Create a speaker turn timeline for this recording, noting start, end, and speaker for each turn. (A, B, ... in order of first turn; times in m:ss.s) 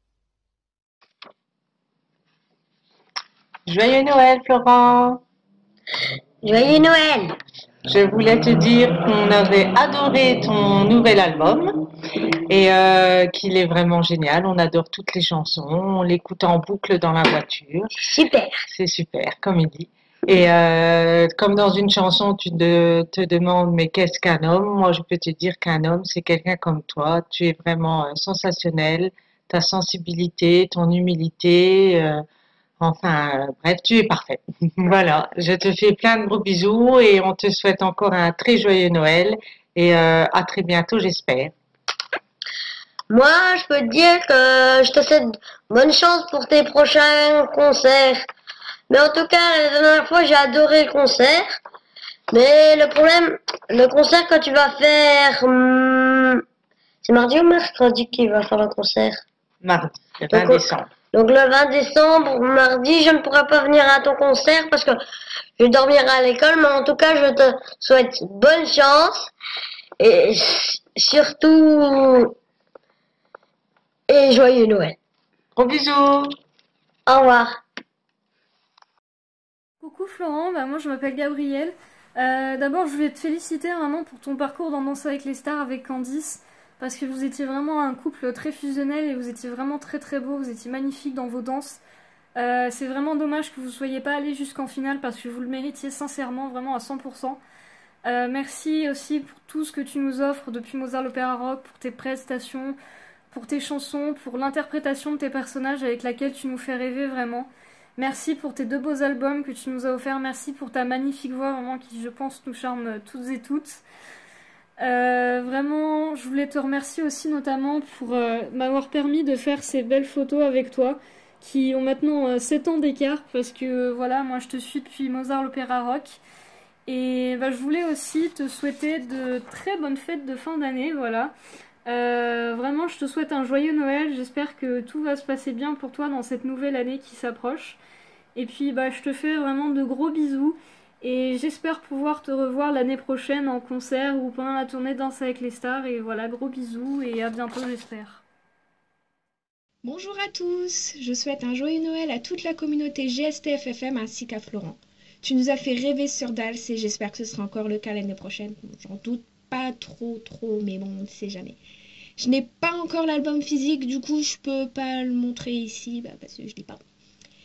0:03.7-0:05.2 A
0:06.4-0:07.4 B
0:07.9-0:11.7 A
0:12.5-0:17.9 A
0:18.0-0:18.6 B
0:18.7-0:32.2 A
0:32.8-0:41.5 A
0:43.1-0:48.2 B
0:48.9-0:51.6 B
0:52.3-0:56.4 B
0:57.0-0:59.2 B
0:59.6-1:00.9 A
1:00.3-1:05.0 B
1:05.6-1:09.3 B
1:10.0-1:12.3 B
1:14.1-1:15.0 B
1:15.6-1:16.3 A
1:17.1-1:17.6 B
1:19.8-1:31.8 C
1:32.4-1:37.4 C
1:38.0-1:42.8 C
1:43.3-1:53.8 C
1:54.8-2:06.2 C
2:06.8-2:11.3 C
2:11.8-2:17.8 C
2:18.3-2:28.2 C
2:29.8-2:41.6 D
2:42.2-2:46.8 D